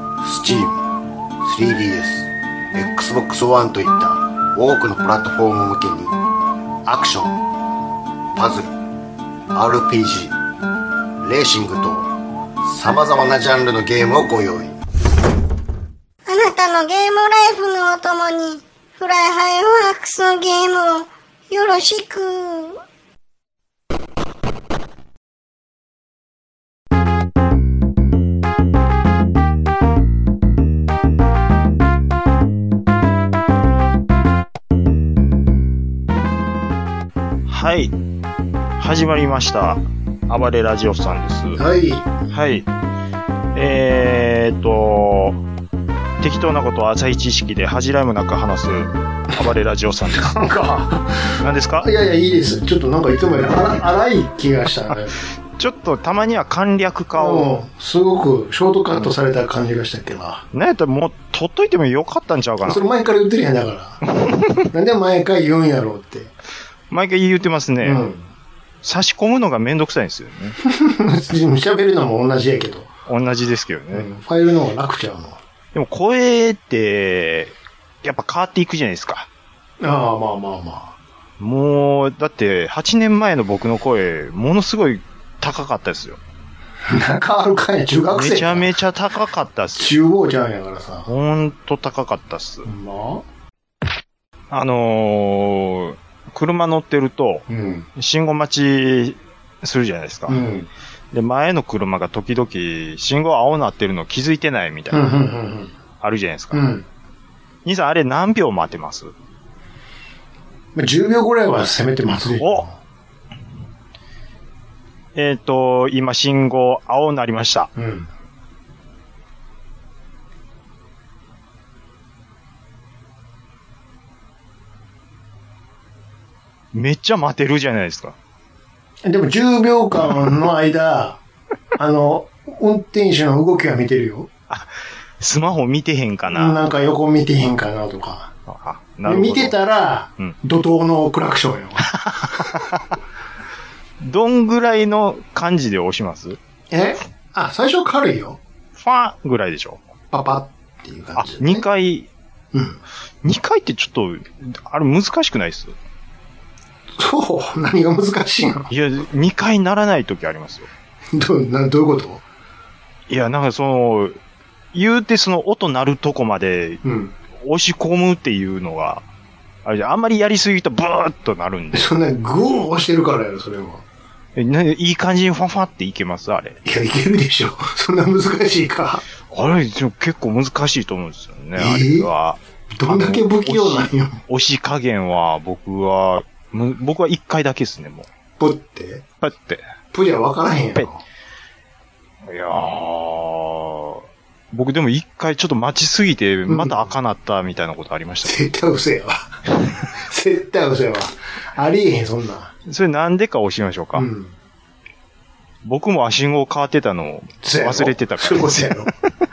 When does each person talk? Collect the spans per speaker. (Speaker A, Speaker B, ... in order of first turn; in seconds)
Speaker A: 0.2-0.9, 1.4-6.2, 6.8-7.4, 8.3-8.7, 9.5-10.3, 11.2-12.1, 12.6-14.8
Speaker B: 16.3-22.8
Speaker C: 37.5-38.0, 38.8-41.6, 42.3-42.7, 43.5-45.4, 46.2-50.5, 51.4-51.9, 55.6-57.6, 60.5-62.9, 64.2-64.6, 66.9-68.0, 68.8-70.6, 73.1-74.1, 75.7-79.3, 81.4-86.2, 88.1-90.0, 91.1-92.7, 94.5-97.5, 98.0-100.4, 101.1-105.1, 106.0-106.6, 107.7-109.1, 112.4-112.7, 115.2-117.7, 126.7-128.2, 134.5-136.8, 138.5-139.6, 141.9-142.8, 144.0-146.4, 148.8-149.8, 151.2-152.1, 153.2-155.8, 158.7-160.7, 163.1-164.2, 164.7-166.8, 167.4-169.1, 169.7-171.9, 174.4-176.6, 179.3-188.1, 189.2-189.6, 192.2-198.4, 202.7-204.1, 205.6-208.9
Speaker D: 41.5-42.1, 50.1-55.2, 57.2-60.5, 62.6-64.0, 64.7-66.3, 67.8-68.3, 70.6-72.9, 73.9-75.4, 79.8-81.0, 86.9-88.7, 89.8-91.1, 92.7-93.2, 97.5-97.9, 100.3-100.7, 104.9-105.7, 106.5-106.9, 110.8-112.8, 117.8-118.1, 129.1-131.2, 131.7-134.3, 136.3-138.3, 139.1-142.7, 146.7-148.4, 150.1-151.6, 152.5-152.8, 157.0-158.7, 161.1-162.2, 166.8-167.1, 171.7-173.8, 176.7-179.0, 181.6-182.1, 182.7-184.2, 188.4-189.0, 189.9-191.0, 196.5-196.8, 198.2-199.3, 199.9-202.5, 203.9-204.3, 207.4-208.9